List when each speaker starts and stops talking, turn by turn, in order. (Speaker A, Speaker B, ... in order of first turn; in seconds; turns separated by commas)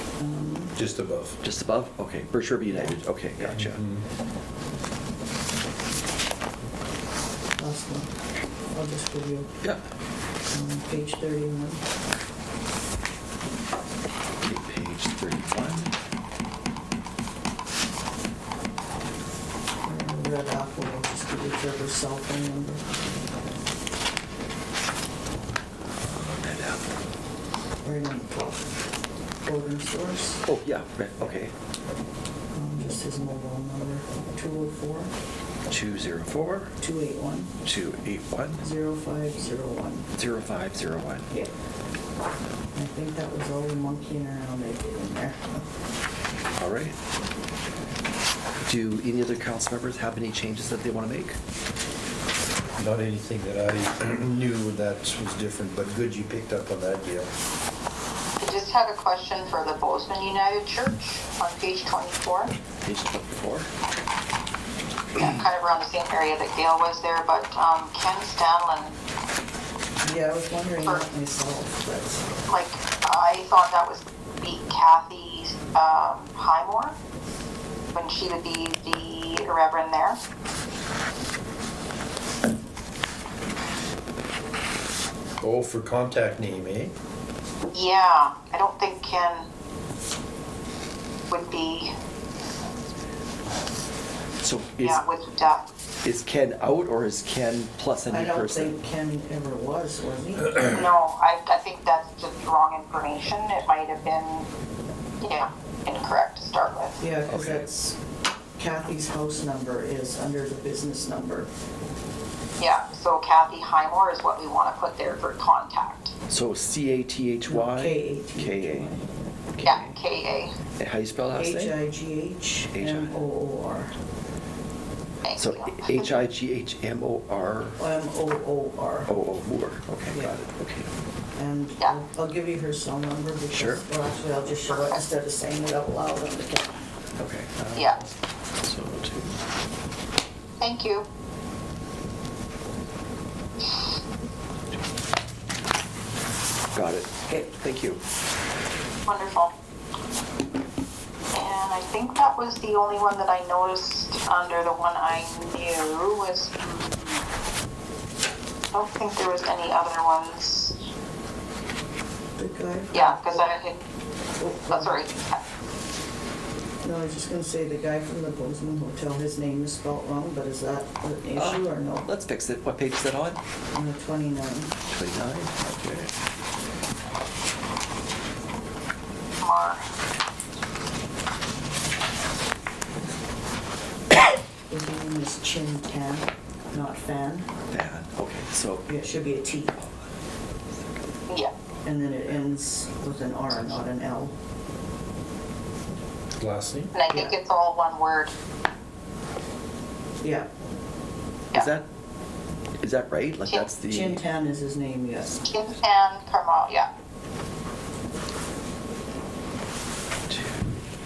Speaker A: 0.2-0.7, Speaker B: 0.8-1.4, Speaker C: 1.4-3.8, Speaker B: 3.4-4.0, Speaker A: 7.6-8.1, Speaker A: 8.7-9.5, Speaker A: 10.5-11.8, Speaker C: 14.4-15.9, Speaker A: 19.8-22.8, Speaker C: 26.0-26.9, Speaker A: 27.8-28.7, Speaker A: 29.4-30.4, Speaker C: 30.4-31.5, Speaker A: 32.5-35.1, Speaker C: 35.7-36.7, Speaker A: 36.8-37.5, Speaker C: 37.6-38.6, Speaker A: 38.6-40.1, Speaker C: 40.1-41.3, Speaker A: 42.7-45.6, Speaker C: 46.6-47.0, Speaker C: 48.6-51.4, Speaker B: 52.8-57.3, Speaker D: 58.4-62.5, Speaker C: 62.8-63.7, Speaker D: 65.2-69.0, Speaker A: 70.0-72.2, Speaker D: 72.5-76.9, Speaker D: 77.9-80.2, Speaker B: 85.4-86.9, Speaker D: 87.7-89.5, Speaker D: 91.3-91.9, Speaker C: 94.4-95.0, Speaker D: 94.8-95.7, Speaker C: 96.0-98.7, Speaker A: 98.1-100.8, Speaker D: 100.6-104.5, Speaker D: 105.2-107.0, Speaker A: 107.0-108.0, Speaker C: 107.3-107.7, Speaker A: 108.5-111.5, Speaker D: 112.6-116.1, Speaker C: 116.3-118.9, Speaker A: 117.5-119.0, Speaker C: 119.5-120.0, Speaker D: 119.6-120.5, Speaker C: 120.8-121.8, Speaker A: 121.3-123.9, Speaker C: 122.7-123.1, Speaker D: 125.2-126.2, Speaker C: 125.3-127.8, Speaker A: 127.8-129.1, Speaker C: 129.1-130.9, Speaker A: 130.1-130.4, Speaker A: 131.3-136.8, Speaker C: 133.5-133.8, Speaker C: 137.2-138.0, Speaker D: 137.7-138.0, Speaker C: 138.6-139.4, Speaker D: 140.6-141.0, Speaker C: 146.7-148.0, Speaker D: 149.1-149.5, Speaker D: 151.3-157.2, Speaker D: 158.7-160.7, Speaker A: 162.4-163.5, Speaker D: 162.9-163.8, Speaker A: 164.4-165.0, Speaker D: 164.7-165.4, Speaker A: 166.8-172.1, Speaker C: 171.3-173.4, Speaker A: 173.7-174.7, Speaker C: 174.9-176.1, Speaker D: 179.4-179.8, Speaker A: 184.7-187.5, Speaker C: 187.7-188.9, Speaker A: 188.9-189.8, Speaker A: 191.8-194.3, Speaker B: 196.4-196.9, Speaker D: 196.9-198.3, Speaker A: 200.2-200.5, Speaker C: 201.5-201.8, Speaker C: 202.8-204.2, Speaker A: 203.9-205.4, Speaker D: 205.4-206.9, Speaker C: 210.3-210.8